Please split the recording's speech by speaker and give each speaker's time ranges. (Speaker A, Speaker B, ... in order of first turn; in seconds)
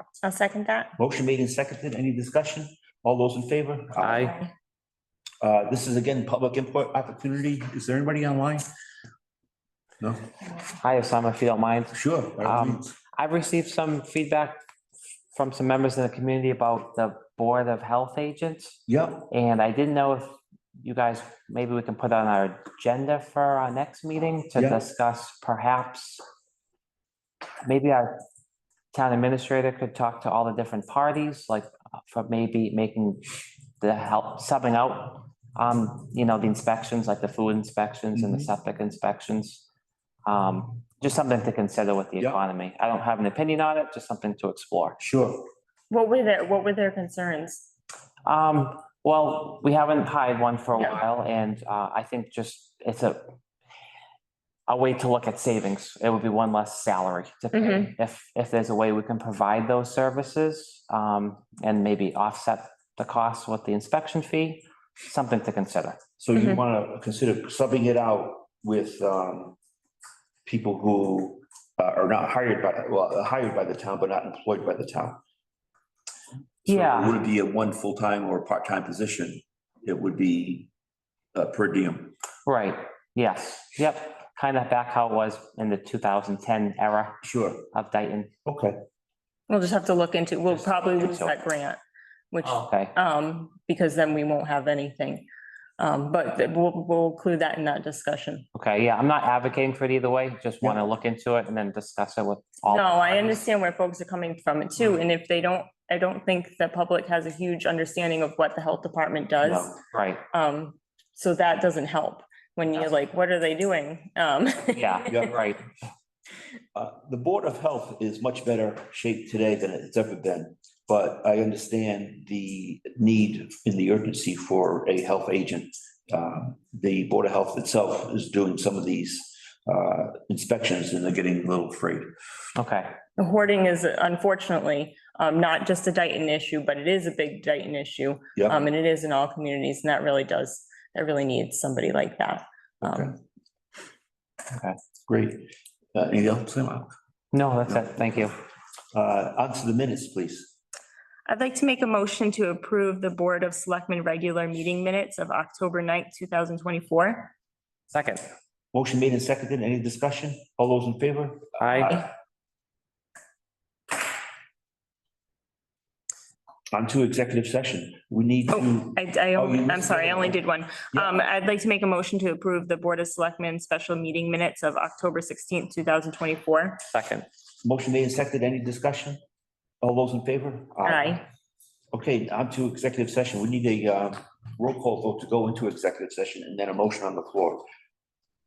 Speaker A: 0.2-0.9, 4.1-4.5, 45.9-47.7, 57.5-57.9, 66.3-66.6, 89.5-91.8, 92.3-95.3, 95.8-98.5, 102.7-109.8, 110.3-115.1, 133.2-143.1, 151.3-157.3, 168.5-176.8, 180.8-181.2
Speaker B: 1.0-4.3, 5.4-8.7, 10.0-10.3, 11.9-12.9, 18.9-19.3, 24.6-24.8, 38.1-38.5, 45.0-45.5, 66.2-69.6, 70.5-75.2, 76.7-80.7, 81.3-82.2, 87.2-87.7, 88.5-88.8, 109.4-109.8, 115.1-115.4, 116.8-132.1, 138.4-138.6, 142.8-143.2, 144.6-146.9, 147.7-148.1, 148.9-150.5, 158.7-162.1, 166.7-170.4, 177.6-179.2, 179.8-181.2, 181.9-187.6
Speaker C: 4.0-4.3, 10.8-14.6, 15.3-26.2, 27.6-28.2, 28.9-33.2, 33.8-39.6, 40.3-45.0, 48.2-53.4, 54.7-66.0, 76.7-77.2, 82.5-88.3, 90.5-91.3, 92.4-92.9, 98.5-103.4, 109.9-110.2, 114.8-115.7, 132.6-133.0, 147.3-148.4, 157.9-158.2, 161.6-162.0, 176.9-177.3